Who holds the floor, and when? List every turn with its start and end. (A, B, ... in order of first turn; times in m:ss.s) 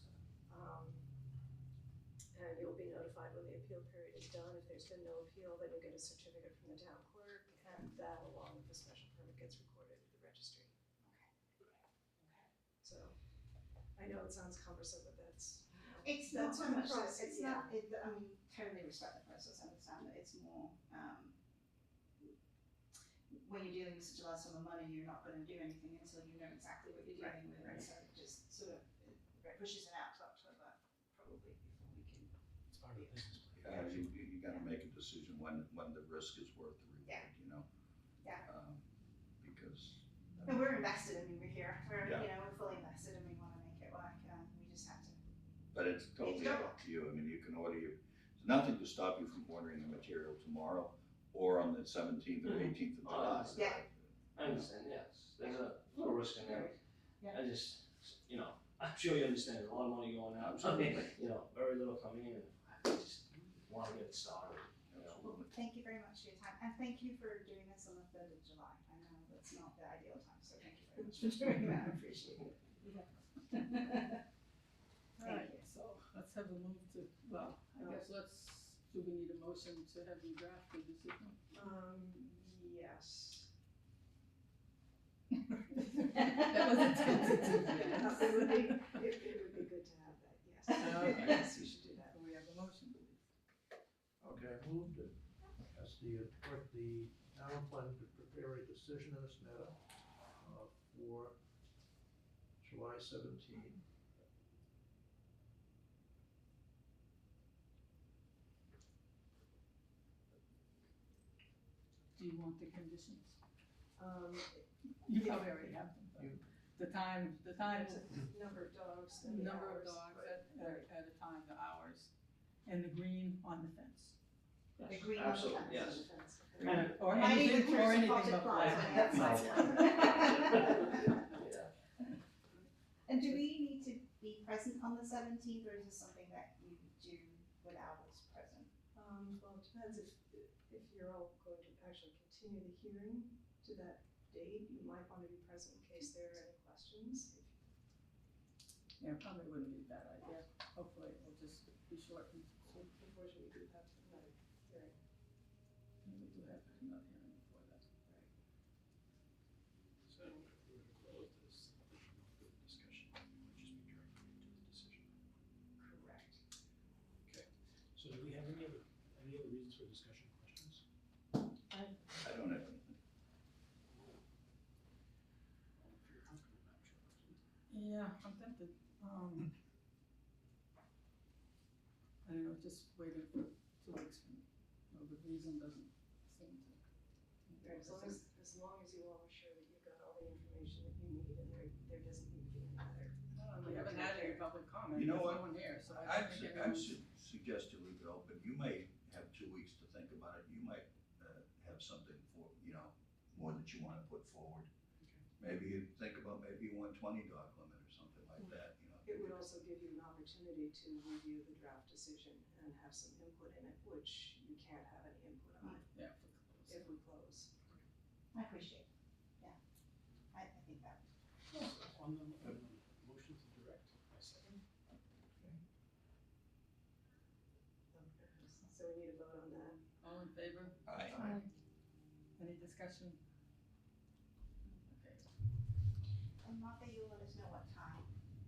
0:00.5-0:01.0 A
0:02.3-0:10.7 A
0:11.0-0:11.3 B
0:12.8-0:13.1 A
0:14.0-0:17.8 A
0:16.0-0:21.4 B
0:23.3-0:32.3 B
0:32.7-0:34.1 C
0:32.9-0:33.9 B
0:33.6-0:37.7 D
0:38.4-0:38.8 D
0:39.4-0:40.5 D
0:40.4-0:45.2 B
0:42.0-0:42.3 D
0:45.7-0:54.7 D
0:46.2-0:46.8 B
0:52.4-0:53.7 E
0:53.5-0:53.8 B
0:54.3-1:05.3 E
1:00.4-1:01.2 D
1:04.9-1:05.5 D
1:05.5-1:13.0 B
1:13.5-1:14.0 B
1:15.2-1:21.4 F
1:17.8-1:18.0 A
1:21.5-1:23.5 A
1:25.9-1:28.6 F
1:26.4-1:32.2 A
1:30.8-1:31.5 F
1:32.1-1:33.2 F
1:34.2-1:39.8 G
1:40.4-1:41.4 G
1:42.6-1:43.8 G
1:52.2-1:53.4 F
1:54.0-1:55.8 A
1:55.0-1:58.2 F
1:56.1-1:56.4 G
1:57.6-2:00.8 A
1:59.2-2:02.1 F
2:02.6-2:04.2 F
2:04.8-2:06.1 E
2:04.9-2:06.1 B
2:05.7-2:06.9 A
2:06.6-2:07.0 E
2:06.6-2:11.1 B
2:06.6-2:09.2 F
2:08.6-2:11.7 E
2:13.1-2:18.7 B
2:18.9-2:27.6 A
2:29.0-2:32.9 F
2:32.9-2:35.0 A
2:36.0-2:37.8 F
2:40.1-2:45.1 C
2:45.8-2:46.4 A
2:47.2-2:50.8 C
2:52.2-2:53.0 D
2:53.9-2:54.2 C
2:55.8-2:57.4 C
2:57.7-2:59.5 F
3:02.2-3:06.8 F
3:07.5-3:08.2 F
3:07.6-3:14.5 A
3:13.3-3:17.0 F
3:14.9-3:24.7 D
3:25.4-3:29.4 D
3:29.0-3:35.9 A
3:35.9-3:36.9 F
3:36.7-3:37.5 A
3:38.3-3:38.9 B
3:40.3-3:41.0 B
3:41.5-3:44.5 C
3:47.9-3:49.8 A
3:50.0-3:51.5 F
3:50.8-3:51.2 D
3:52.4-3:53.2 F
3:54.6-3:55.3 F
3:56.4-3:58.1 B